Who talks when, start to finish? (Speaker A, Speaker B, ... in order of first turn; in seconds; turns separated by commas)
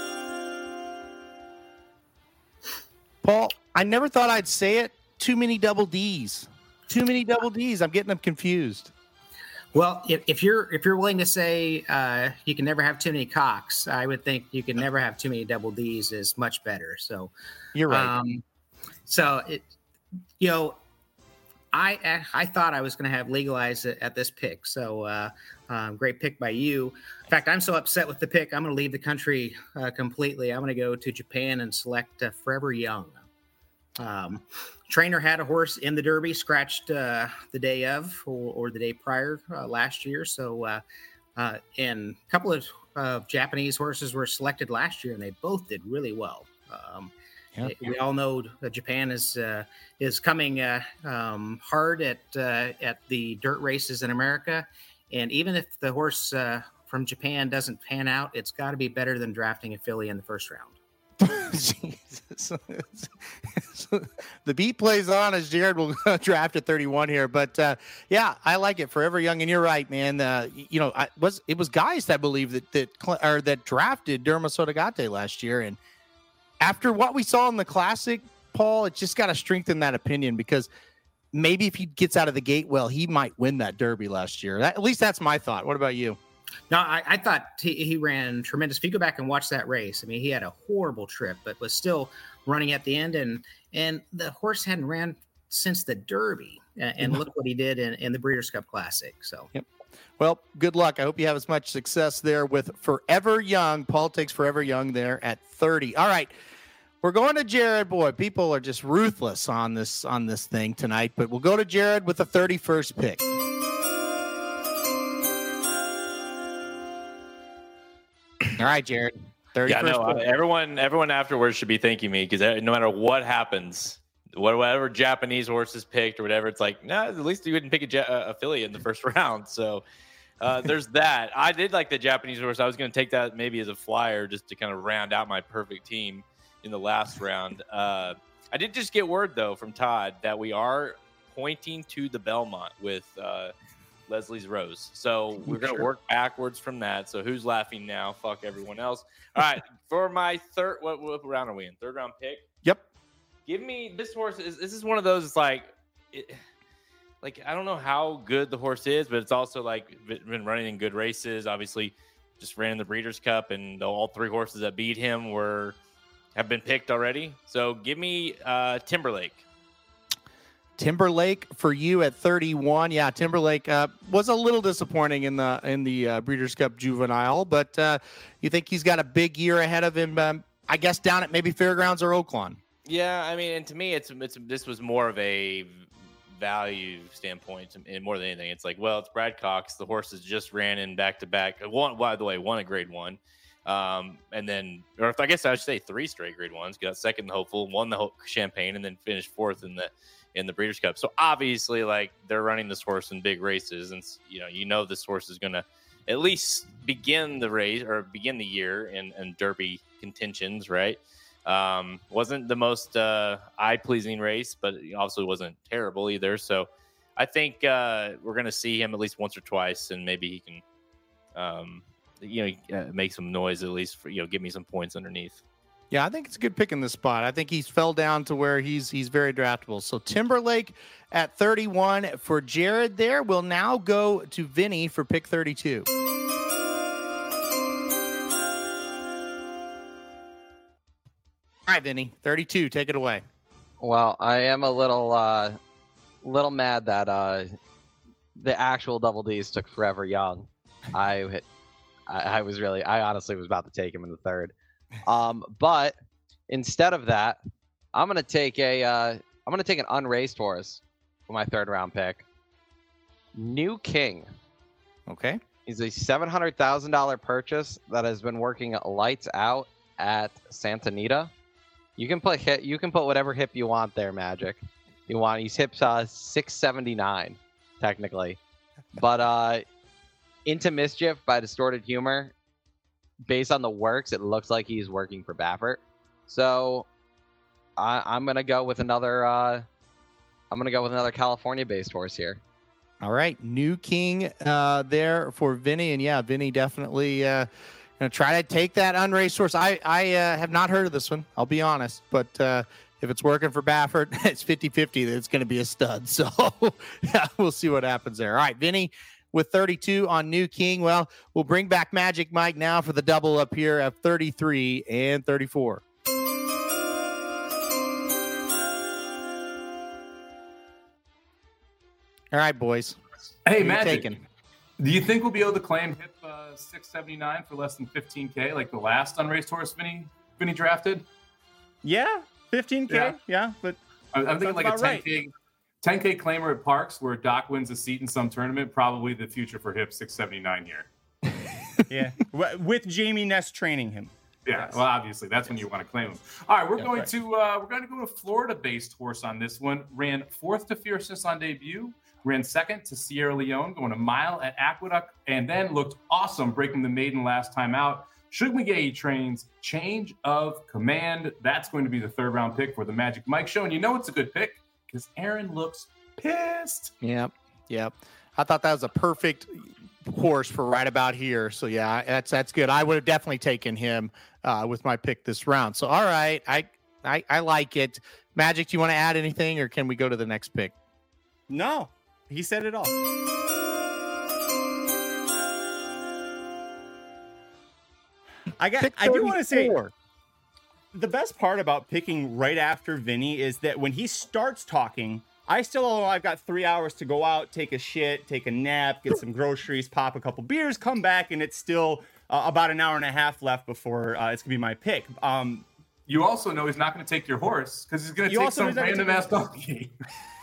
Speaker A: 3.2-8.9, Speaker B: 9.7-17.3, Speaker A: 17.7-18.1, Speaker B: 17.9-18.4, Speaker B: 19.1-19.7, Speaker B: 20.4-20.8, Speaker B: 21.7-33.2, Speaker B: 34.0-40.8, Speaker B: 41.4-60.7, Speaker A: 61.2-75.8, Speaker A: 76.6-80.7, Speaker A: 81.3-86.2, Speaker B: 86.7-99.5, Speaker A: 100.2-106.3, Speaker A: 107.0-113.3, Speaker A: 118.6-120.3, Speaker C: 119.7-129.8, Speaker C: 130.4-143.5, Speaker C: 144.1-152.4, Speaker A: 145.4-145.9, Speaker C: 153.4-156.4, Speaker C: 157.2-165.8, Speaker C: 166.3-169.4, Speaker A: 170.8-182.6, Speaker C: 182.8-220.6, Speaker C: 221.3-225.4, Speaker A: 225.9-235.9, Speaker A: 241.7-243.2, Speaker D: 243.8-245.6, Speaker D: 246.2-247.5, Speaker D: 248.4-251.4, Speaker D: 252.1-254.5, Speaker D: 255.0-255.9, Speaker D: 256.5-257.4, Speaker D: 257.9-262.2, Speaker D: 263.3-264.3, Speaker A: 265.1-265.4, Speaker D: 265.6-271.3, Speaker D: 272.0-278.4, Speaker D: 279.0-279.6, Speaker D: 280.4-282.3, Speaker D: 283.3-286.9, Speaker D: 287.8-289.6, Speaker D: 290.5-292.4, Speaker A: 293.0-297.5, Speaker A: 298.0-315.8, Speaker A: 322.3-323.0, Speaker E: 323.4-324.1, Speaker A: 323.6-324.2, Speaker E: 324.8-331.1, Speaker F: 331.8-333.8, Speaker E: 332.9-333.1, Speaker E: 334.1-335.3, Speaker F: 334.4-335.1, Speaker E: 335.8-340.9, Speaker F: 341.9-344.8, Speaker E: 344.4-366.9, Speaker F: 346.8-347.1, Speaker A: 367.0-380.7, Speaker F: 381.5-382.9, Speaker F: 388.6-389.7, Speaker A: 388.8-389.9, Speaker F: 390.9-405.6, Speaker E: 406.1-409.9, Speaker F: 408.2-409.4